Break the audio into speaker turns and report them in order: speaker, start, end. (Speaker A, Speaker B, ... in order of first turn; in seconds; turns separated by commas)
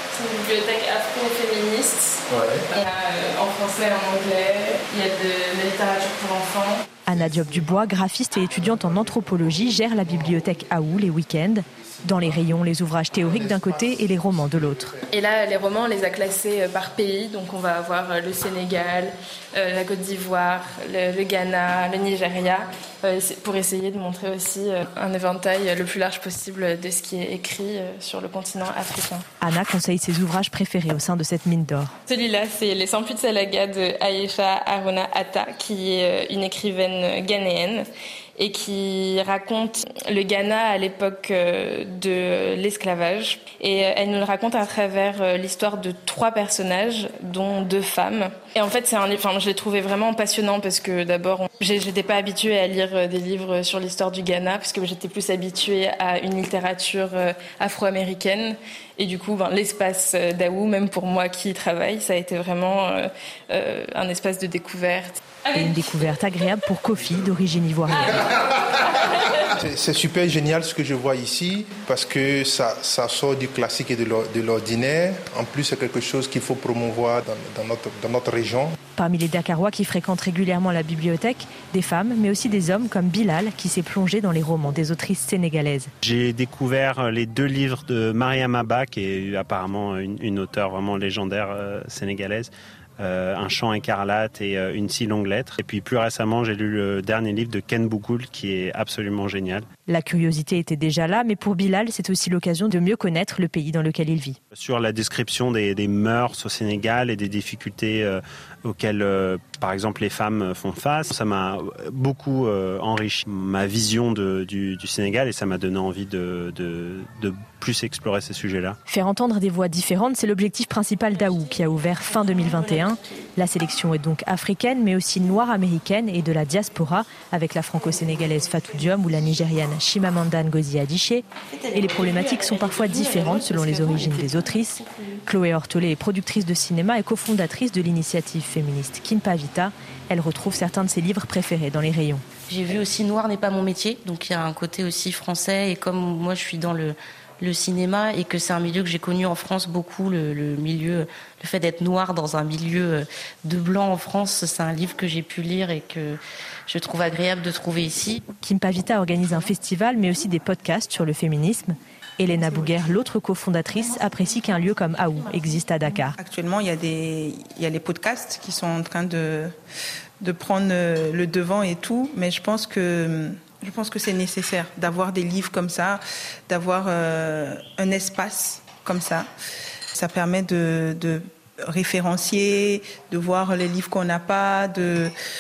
Speaker A: 0.2-2.2, Speaker B: 2.3-2.6, Speaker A: 2.8-6.8, Speaker B: 6.9-15.8, Speaker C: 7.1-14.9, Speaker A: 15.1-29.2, Speaker C: 29.4-31.9, Speaker A: 32.1-37.8, Speaker A: 38.4-63.0, Speaker A: 63.5-65.6, Speaker C: 65.5-68.3, Speaker B: 67.1-78.8, Speaker C: 79.0-85.9, Speaker D: 86.0-99.7, Speaker C: 99.9-104.4, Speaker D: 104.5-118.8, Speaker C: 118.9-142.2, Speaker E: 121.4-122.9, Speaker E: 131.5-135.2, Speaker E: 142.5-158.2, Speaker C: 158.4-166.2, Speaker F: 166.2-169.5, Speaker F: 170.2-179.3, Speaker F: 179.9-185.1